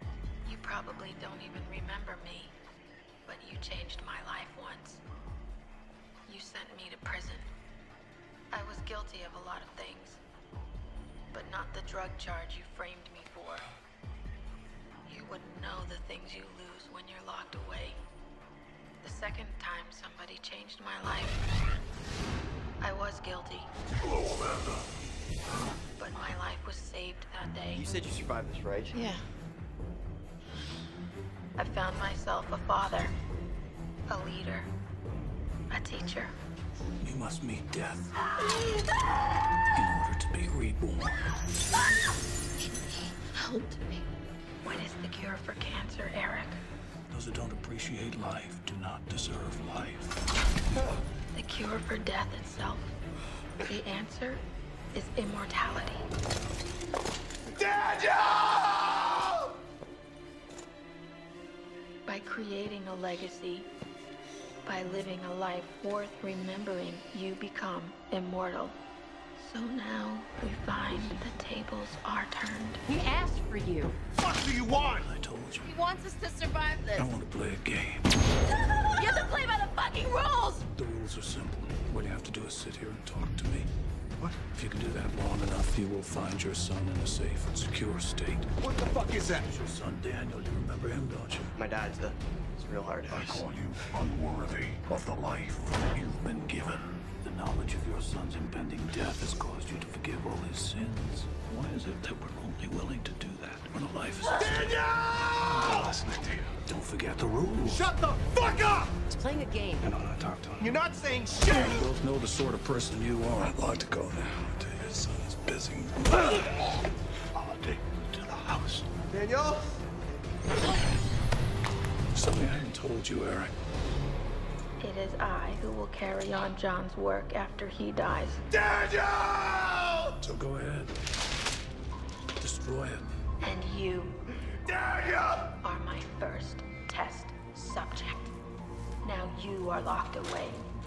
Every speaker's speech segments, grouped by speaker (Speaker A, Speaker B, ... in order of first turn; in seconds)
Speaker A: 0.4-2.5, 3.2-5.0, 6.3-7.5, 8.5-10.2, 11.3-13.7, 15.1-18.0, 19.0-21.4, 22.8-23.7, 26.0-27.9, 28.9-29.2, 31.6-33.1, 34.1-34.7, 35.7-36.3, 43.4-44.0, 44.6-46.6, 51.3-53.0, 53.6-56.0, 62.0-63.7, 64.6-68.8, 69.4-72.8, 124.8-128.4, 133.4-134.2, 135.6-138.3, 139.0-140.6
Speaker B: 24.2-24.6, 37.0-38.1, 39.7-41.3, 47.1-50.2, 75.0-75.7, 77.0-78.2, 80.7-83.7, 84.4-88.5, 89.4-91.5, 93.1-104.7, 105.4-107.9, 109.8-110.7, 111.5-116.7, 117.3-118.9, 122.1-123.5, 130.2-130.9, 132.4-133.1
Speaker C: 27.7-29.0, 91.5-93.4
Speaker D: 57.6-59.5, 74.1-75.1, 88.6-89.5, 104.3-105.9, 107.6-108.9, 110.6-111.8, 119.1-119.8, 128.5-130.2, 134.7-135.5
Speaker E: 72.9-74.0, 75.6-77.1, 78.9-80.6, 109.1-109.9